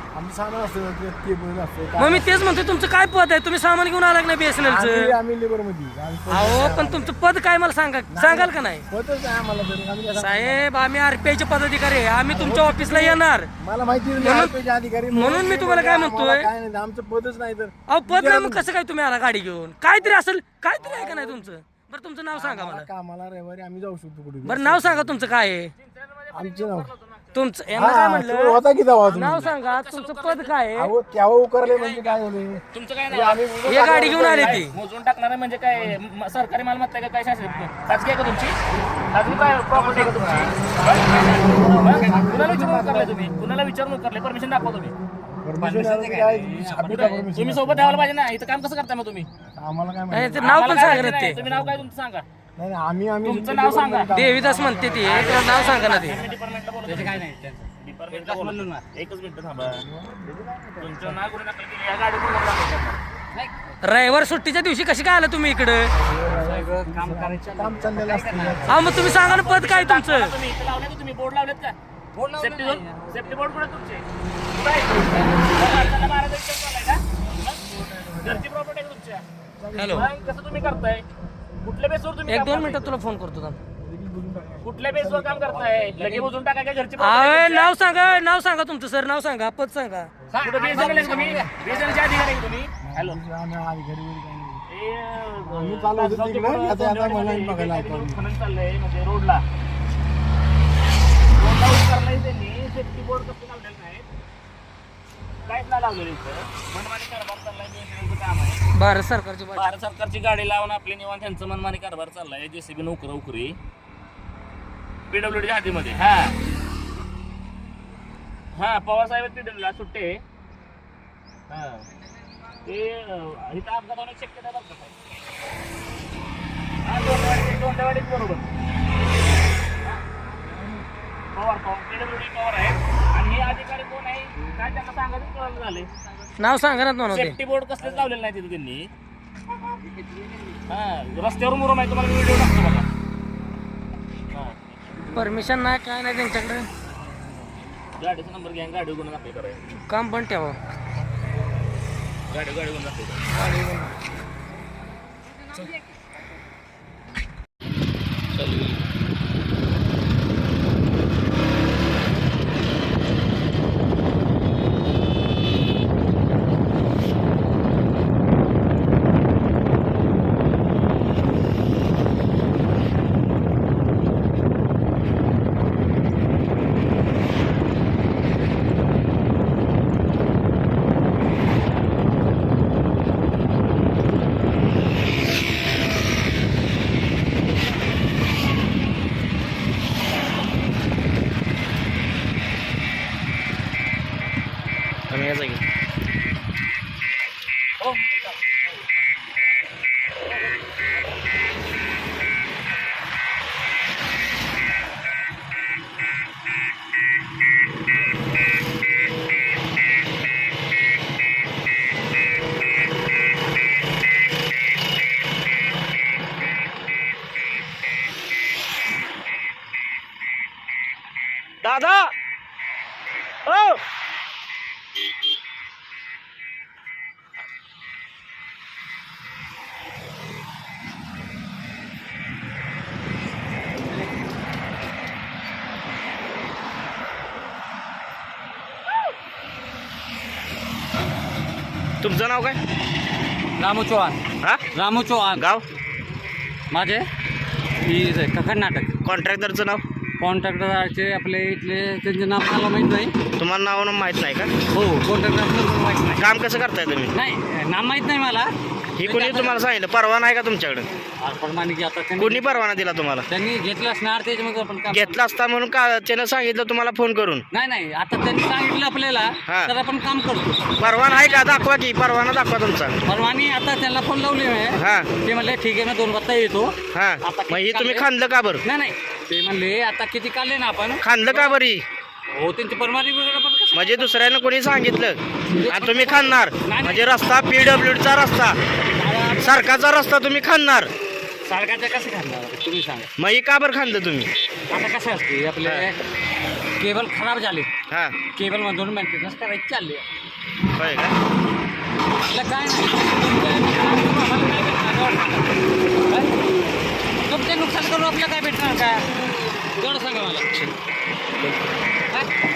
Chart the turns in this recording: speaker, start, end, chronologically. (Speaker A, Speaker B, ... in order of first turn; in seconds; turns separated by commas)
Speaker A: 0.1-2.7, Speaker B: 2.0-5.1, Speaker A: 4.6-7.1, Speaker B: 6.3-8.8, Speaker A: 8.1-10.7, Speaker B: 10.1-13.5, Speaker A: 12.3-18.7, Speaker B: 14.2-14.5, Speaker B: 15.1-16.5, Speaker B: 17.9-22.9, Speaker A: 20.8-21.5, Speaker A: 22.3-25.3, Speaker B: 24.4-25.7, Speaker C: 25.8-27.3, Speaker A: 26.3-26.9, Speaker B: 27.3-30.9, Speaker A: 27.7-29.5, Speaker C: 29.1-30.5, Speaker A: 30.8-34.6, Speaker C: 32.7-33.5, Speaker B: 33.6-34.7, Speaker C: 34.2-38.6, Speaker C: 39.1-44.9, Speaker A: 39.7-43.5, Speaker A: 45.2-48.1, Speaker D: 45.6-47.2, Speaker C: 46.9-49.3, Speaker A: 49.5-51.9, Speaker B: 50.1-51.4, Speaker C: 50.4-52.2, Speaker A: 52.5-56.0, Speaker C: 53.2-54.1, Speaker B: 54.1-56.2, Speaker C: 55.0-57.3, Speaker D: 56.8-58.8, Speaker C: 57.8-59.8, Speaker A: 59.7-61.2, Speaker C: 60.8-63.0, Speaker B: 63.8-65.9, Speaker A: 65.9-69.2, Speaker D: 66.3-68.6, Speaker B: 68.7-70.3, Speaker C: 69.2-71.7, Speaker D: 72.1-73.4, Speaker C: 72.4-77.6, Speaker D: 75.3-75.8, Speaker A: 77.5-78.5, Speaker C: 78.2-79.2, Speaker A: 79.5-81.4, Speaker B: 79.8-80.0, Speaker C: 79.9-81.0, Speaker C: 81.6-83.0, Speaker B: 82.3-83.6, Speaker A: 83.8-86.2, Speaker C: 84.6-87.7, Speaker B: 87.0-90.1, Speaker C: 90.4-93.2, Speaker D: 90.4-91.9, Speaker A: 92.8-94.6, Speaker C: 94.7-99.4, Speaker A: 95.4-98.2, Speaker C: 101.4-104.1, Speaker C: 105.4-108.7, Speaker B: 108.7-109.7, Speaker C: 109.5-113.6, Speaker C: 115.1-116.3, Speaker C: 118.5-120.2, Speaker C: 121.5-121.8, Speaker C: 122.6-124.9, Speaker C: 126.8-128.4, Speaker C: 131.3-135.9, Speaker B: 136.4-137.4, Speaker C: 137.1-138.9, Speaker C: 140.7-142.8, Speaker C: 144.3-144.6, Speaker B: 145.1-146.7, Speaker C: 148.0-149.6, Speaker B: 149.7-150.6, Speaker C: 152.3-153.2, Speaker B: 153.3-153.9, Speaker E: 195.1-195.6, Speaker C: 197.8-198.3, Speaker E: 221.6-222.1, Speaker E: 223.4-223.8, Speaker E: 242.0-242.6, Speaker D: 243.6-244.2, Speaker D: 244.7-245.4, Speaker E: 245.3-245.6, Speaker D: 246.7-247.1, Speaker D: 247.8-248.9, Speaker E: 249.0-249.8, Speaker D: 250.2-253.1, Speaker E: 253.4-254.5, Speaker D: 254.7-256.2, Speaker E: 256.2-257.1, Speaker D: 257.1-258.5, Speaker E: 259.0-260.9, Speaker D: 259.0-259.6, Speaker D: 261.2-262.6, Speaker E: 262.2-263.3, Speaker D: 263.3-265.2, Speaker E: 264.9-267.4, Speaker D: 267.5-271.7, Speaker E: 269.4-269.7, Speaker E: 270.8-272.9, Speaker D: 273.1-278.1, Speaker E: 274.8-275.1, Speaker E: 276.9-278.6, Speaker D: 278.6-281.6, Speaker E: 281.0-281.8, Speaker D: 282.3-284.2, Speaker E: 283.7-288.6, Speaker D: 285.6-287.1, Speaker D: 288.9-289.5, Speaker E: 289.4-290.9, Speaker D: 291.4-293.1, Speaker E: 293.2-294.3, Speaker D: 294.7-296.0, Speaker E: 295.6-295.9, Speaker D: 296.8-297.7, Speaker E: 297.9-298.2, Speaker D: 298.3-300.0, Speaker E: 300.8-301.1, Speaker D: 302.3-305.5, Speaker D: 307.2-309.1, Speaker D: 309.8-310.5, Speaker E: 310.5-310.7